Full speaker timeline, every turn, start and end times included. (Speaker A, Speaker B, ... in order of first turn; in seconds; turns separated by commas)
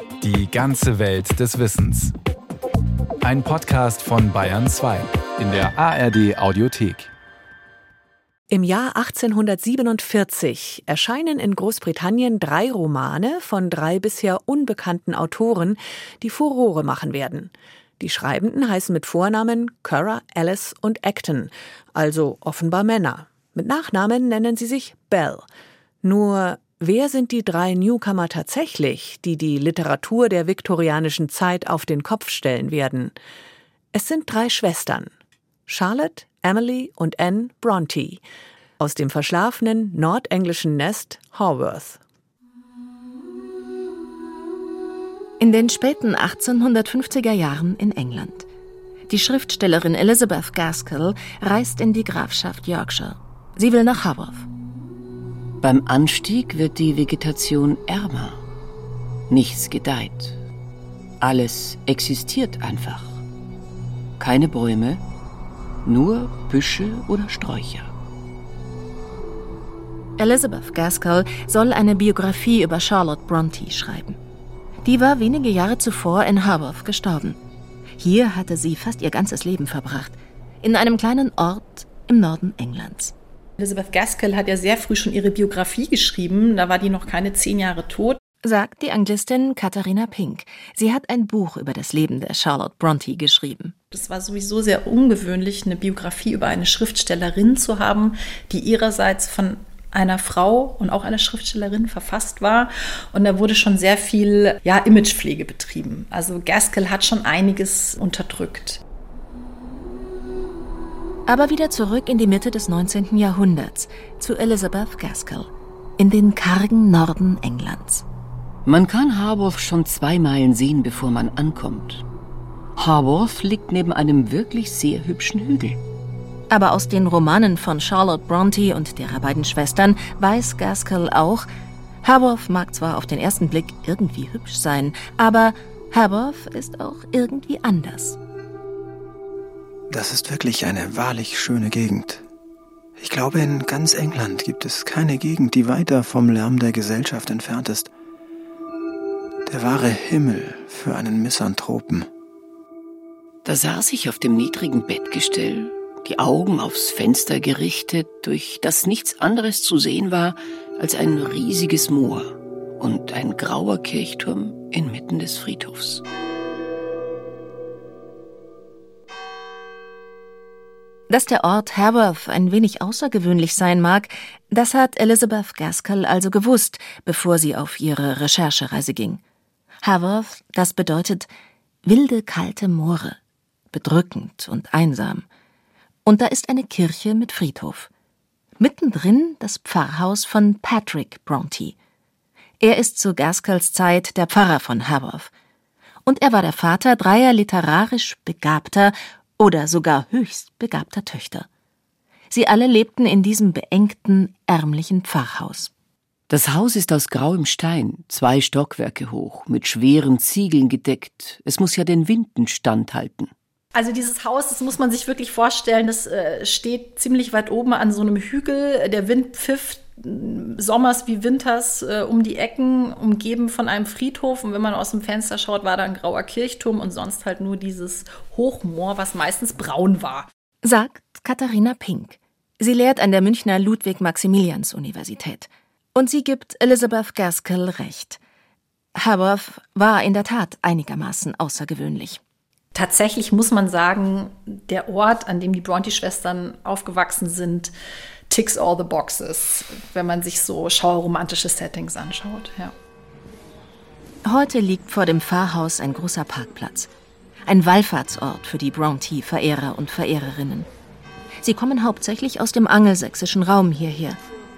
Speaker A: 0.2-2.1, Speaker A: 3.2-7.1, Speaker B: 8.5-25.5, Speaker B: 26.0-33.1, Speaker B: 33.9-35.1, Speaker B: 35.7-38.2, Speaker B: 38.8-42.0, Speaker C: 45.4-48.5, Speaker C: 49.1-54.5, Speaker D: 55.6-58.4, Speaker D: 59.3-60.4, Speaker D: 61.2-63.2, Speaker D: 64.2-65.0, Speaker D: 65.8-67.9, Speaker C: 70.2-74.2, Speaker C: 74.8-77.4, Speaker C: 78.0-83.1, Speaker E: 83.6-88.2, Speaker C: 88.4-93.7, Speaker E: 93.9-108.8, Speaker C: 111.3-118.0, Speaker D: 118.7-122.0, Speaker D: 122.8-125.8, Speaker C: 126.5-131.5, Speaker C: 132.0-138.2, Speaker F: 139.9-142.2, Speaker F: 143.0-147.9, Speaker F: 149.5-152.1, Speaker D: 153.4-166.0, Speaker C: 171.1-179.2, Speaker C: 179.8-181.3, Speaker C: 181.8-183.2, Speaker C: 183.7-185.2, Speaker C: 186.0-187.9, Speaker C: 188.6-191.8, Speaker C: 192.6-195.3, Speaker C: 196.0-201.5, Speaker C: 202.3-205.7, Speaker D: 206.3-213.3, Speaker E: 213.8-230.3, Speaker C: 230.6-238.2, Speaker C: 238.9-242.2, Speaker E: 242.7-247.7, Speaker E: 248.3-252.7, Speaker C: 254.2-256.9, Speaker C: 257.5-260.7, Speaker C: 261.4-264.2